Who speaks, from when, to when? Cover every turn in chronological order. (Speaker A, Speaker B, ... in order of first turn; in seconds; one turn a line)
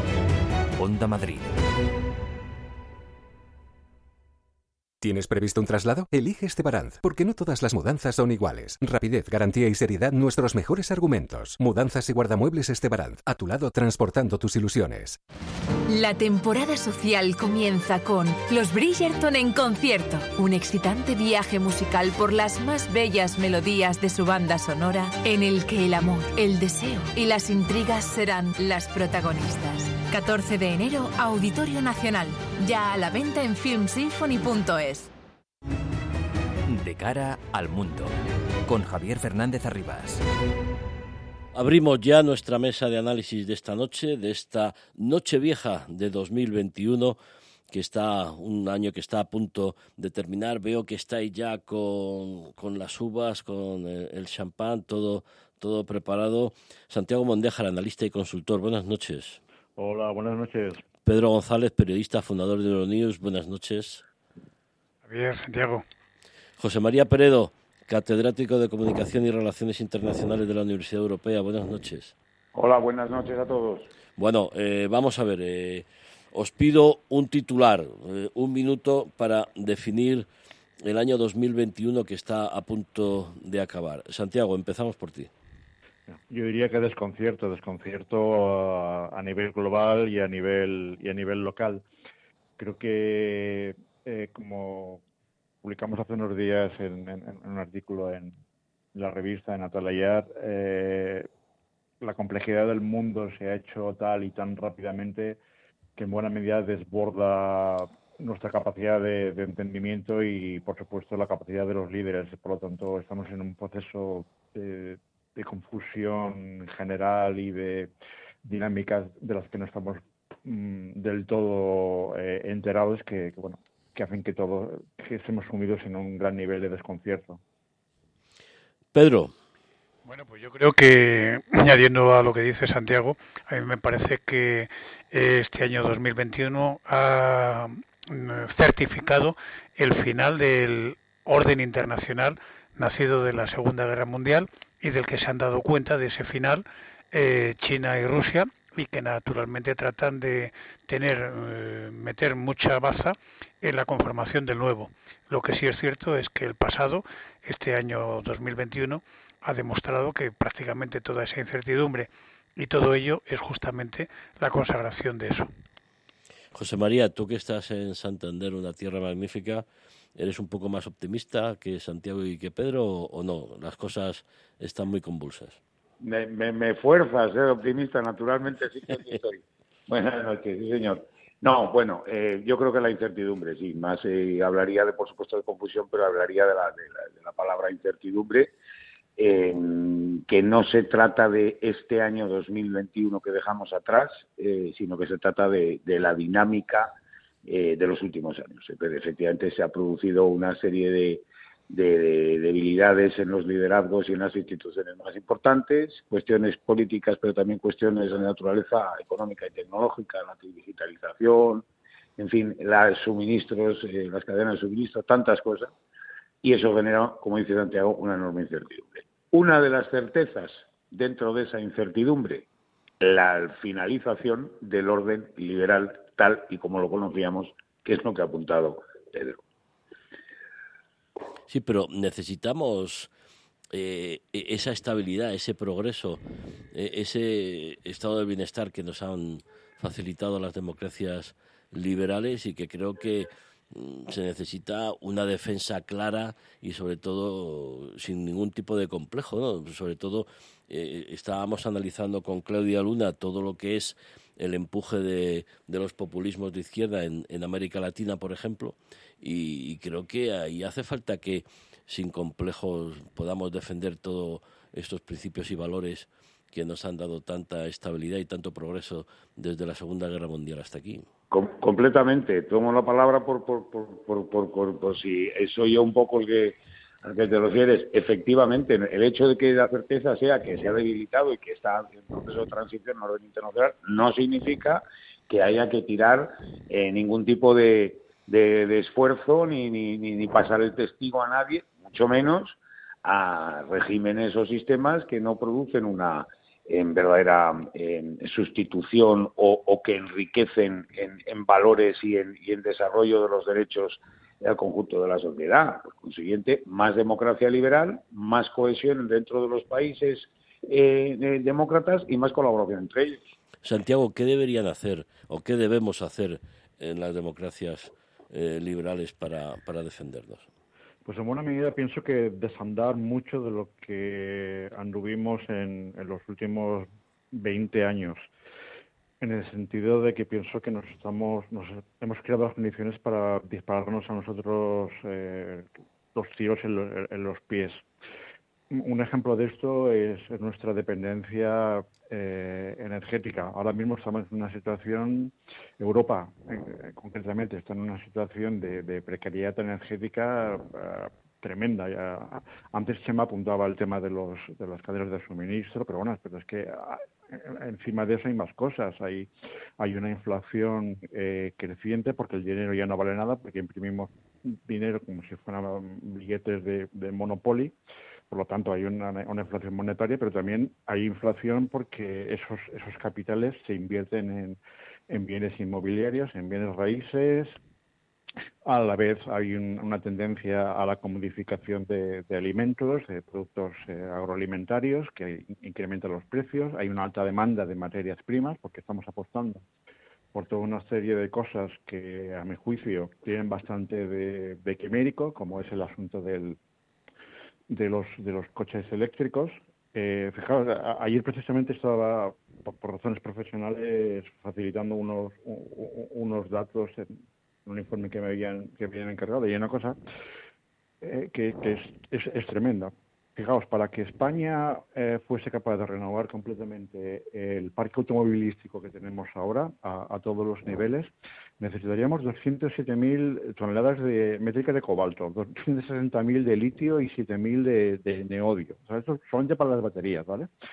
Speaker A: 0.8-1.5
Speaker B: 5.0-15.2
Speaker C: 15.9-35.1
Speaker A: 36.7-38.1
Speaker A: 38.7-40.2
Speaker D: 41.5-47.2
Speaker D: 47.7-59.4
Speaker E: 59.8-60.8
Speaker D: 61.0-64.0
Speaker F: 65.0-65.8
Speaker D: 66.6-72.1
Speaker G: 72.5-73.9
Speaker D: 74.2-80.3
Speaker D: 80.8-85.3
Speaker E: 86.1-91.8
Speaker E: 92.6-95.0
Speaker E: 95.6-98.3
Speaker E: 98.9-101.3
Speaker E: 102.0-105.4
Speaker E: 106.0-117.9
Speaker E: 118.4-127.4
Speaker D: 128.9-129.3
Speaker F: 130.1-165.5
Speaker D: 166.5-169.7
Speaker D: 170.2-175.6
Speaker G: 176.0-188.5
Speaker G: 189.2-196.9
Speaker G: 197.5-211.7
Speaker G: 212.2-215.7
Speaker G: 216.4-222.5
Speaker G: 223.0-229.4
Speaker D: 231.5-233.1
Speaker D: 233.7-236.2
Speaker D: 236.7-271.0
Speaker G: 271.3-313.3
Speaker D: 313.6-320.5
Speaker E: 321.1-328.3
Speaker E: 329.2-337.9
Speaker E: 338.7-367.8
Speaker E: 368.3-374.6
Speaker E: 375.1-377.6
Speaker E: 378.6-389.6
Speaker E: 390.3-396.6
Speaker E: 397.7-407.1
Speaker E: 407.7-410.0
Speaker E: 411.0-430.5